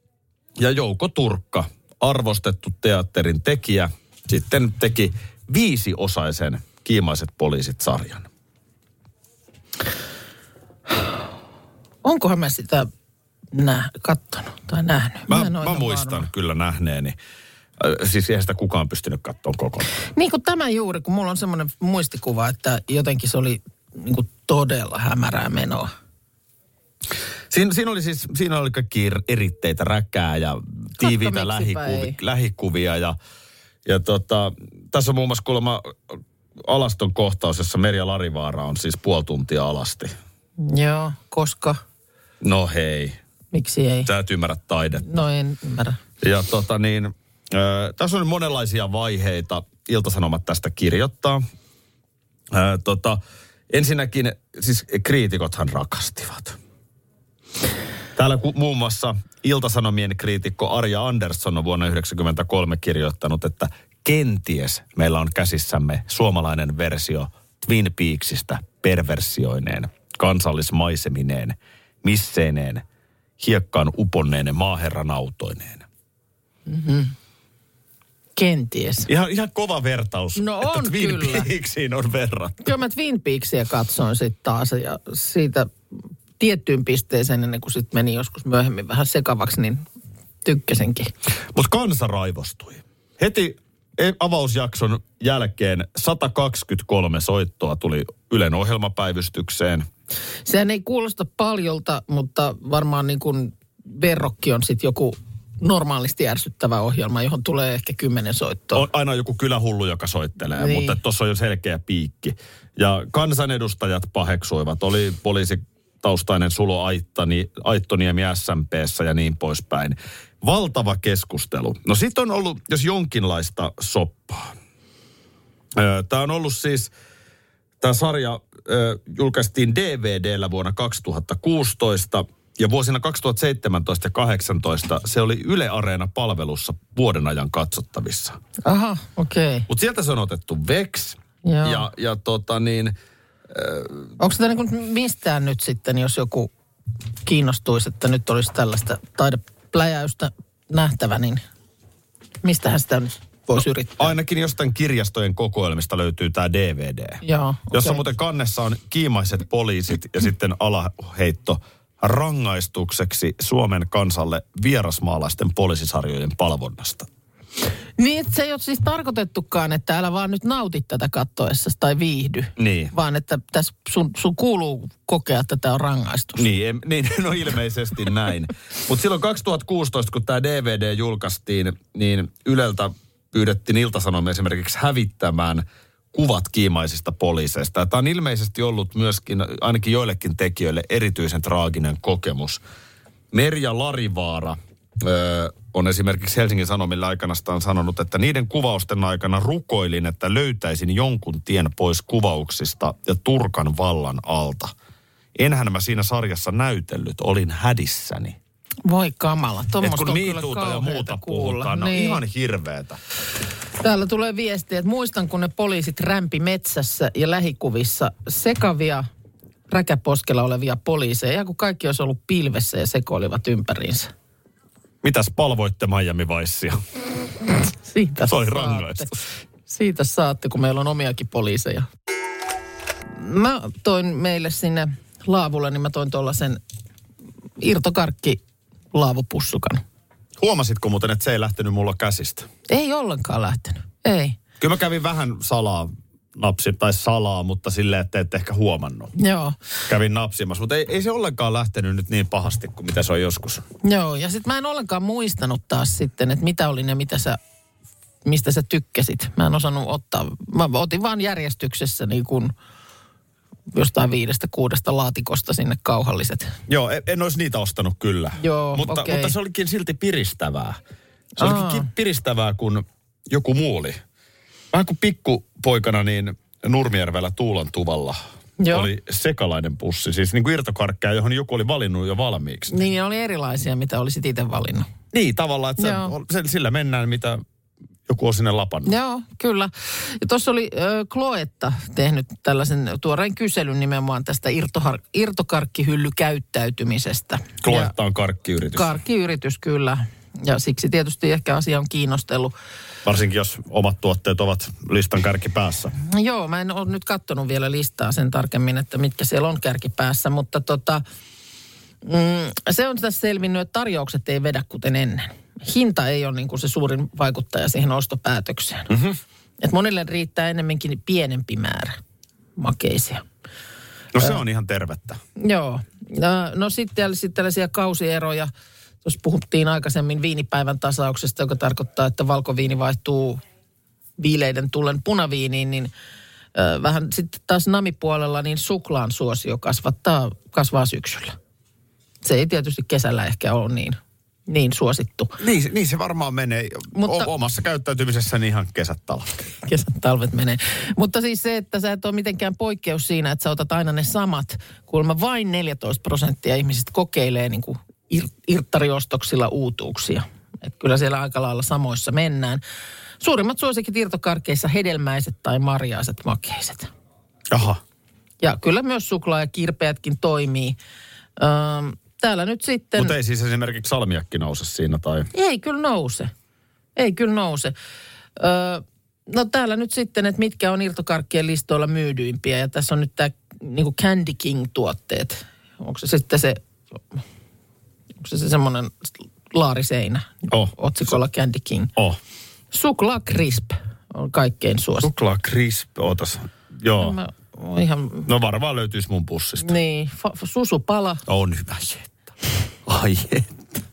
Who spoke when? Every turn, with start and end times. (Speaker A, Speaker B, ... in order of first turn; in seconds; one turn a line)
Speaker A: 0.6-8.3
Speaker B: 12.0-12.9
Speaker B: 13.5-16.3
Speaker A: 15.3-17.2
Speaker A: 17.8-19.9
Speaker B: 20.1-25.9
Speaker A: 27.5-33.2
Speaker B: 31.0-32.2
Speaker A: 33.9-40.1
Speaker B: 40.6-41.8
Speaker A: 42.4-43.2
Speaker B: 43.5-44.1
Speaker A: 44.0-45.0
Speaker B: 45.0-46.0
Speaker A: 46.2-51.4
Speaker A: 52.5-53.2
Speaker A: 53.7-56.6
Speaker A: 58.2-72.8
Speaker A: 73.4-75.9
Speaker B: 76.7-77.2
Speaker B: 78.4-79.1
Speaker A: 79.1-82.7
Speaker B: 80.4-81.5
Speaker B: 82.6-85.7
Speaker B: 86.4-89.8
Speaker B: 90.4-91.1
Speaker A: 91.5-99.9
Speaker B: 100.5-108.9
Speaker A: 108.7-124.5
Speaker B: 110.6-111.0
Speaker A: 125.8-126.9
Speaker A: 127.8-138.4
Speaker B: 138.6-139.7
Speaker A: 139.7-142.9
Speaker B: 141.4-141.9
Speaker A: 143.5-144.1
Speaker B: 144.2-146.5
Speaker B: 147.2-151.4
Speaker B: 152.4-154.2
Speaker A: 154.0-167.1
Speaker B: 157.2-158.1
Speaker B: 168.0-176.5
Speaker A: 172.6-172.9
Speaker A: 176.4-192.6
Speaker A: 193.3-204.7
Speaker A: 205.4-208.4
Speaker B: 208.8-212.2
Speaker A: 209.8-213.0
Speaker B: 213.8-219.1
Speaker B: 219.7-224.1
Speaker A: 225.0-226.8
Speaker B: 227.8-231.9
Speaker A: 228.2-229.1
Speaker B: 233.1-236.6
Speaker B: 237.6-238.4
Speaker B: 238.9-239.8
Speaker A: 240.4-242.5
Speaker B: 242.7-244.4
Speaker A: 244.6-249.1
Speaker B: 249.2-249.6
Speaker A: 249.9-253.7
Speaker B: 253.8-257.4
Speaker B: 258.2-262.5
Speaker B: 263.7-266.6
Speaker A: 266.7-270.8
Speaker B: 268.4-269.3
Speaker A: 271.4-274.0
Speaker B: 271.4-271.9
Speaker A: 274.7-278.2
Speaker B: 278.6-278.9
Speaker A: 278.7-282.8
Speaker B: 282.7-284.9
Speaker A: 285.1-287.4
Speaker B: 285.8-286.1
Speaker A: 288.1-288.9
Speaker B: 288.9-297.9
Speaker A: 297.6-298.9
Speaker B: 298.7-302.6
Speaker A: 303.1-305.9
Speaker B: 306.0-311.0
Speaker B: 312.0-318.9
Speaker A: 318.9-319.2
Speaker B: 319.6-322.0
Speaker B: 322.6-323.2
Speaker A: 324.1-325.2
Speaker B: 325.4-328.5
Speaker B: 329.0-333.4
Speaker B: 334.2-335.9
Speaker B: 336.6-341.4
Speaker B: 342.2-345.3
Speaker A: 345.4-349.5
Speaker B: 346.9-347.3
Speaker B: 349.6-362.6
Speaker B: 363.2-366.9
Speaker A: 367.5-367.8
Speaker B: 368.4-370.8
Speaker B: 371.4-373.1
Speaker A: 373.0-375.3
Speaker B: 375.3-376.3
Speaker B: 377.0-377.8
Speaker B: 378.4-386.6
Speaker B: 388.2-391.9
Speaker A: 390.5-390.7
Speaker B: 392.7-395.1
Speaker A: 395.0-397.2
Speaker B: 397.0-398.3
Speaker A: 398.3-399.8
Speaker B: 399.6-401.2
Speaker A: 401.3-402.2
Speaker A: 402.9-403.6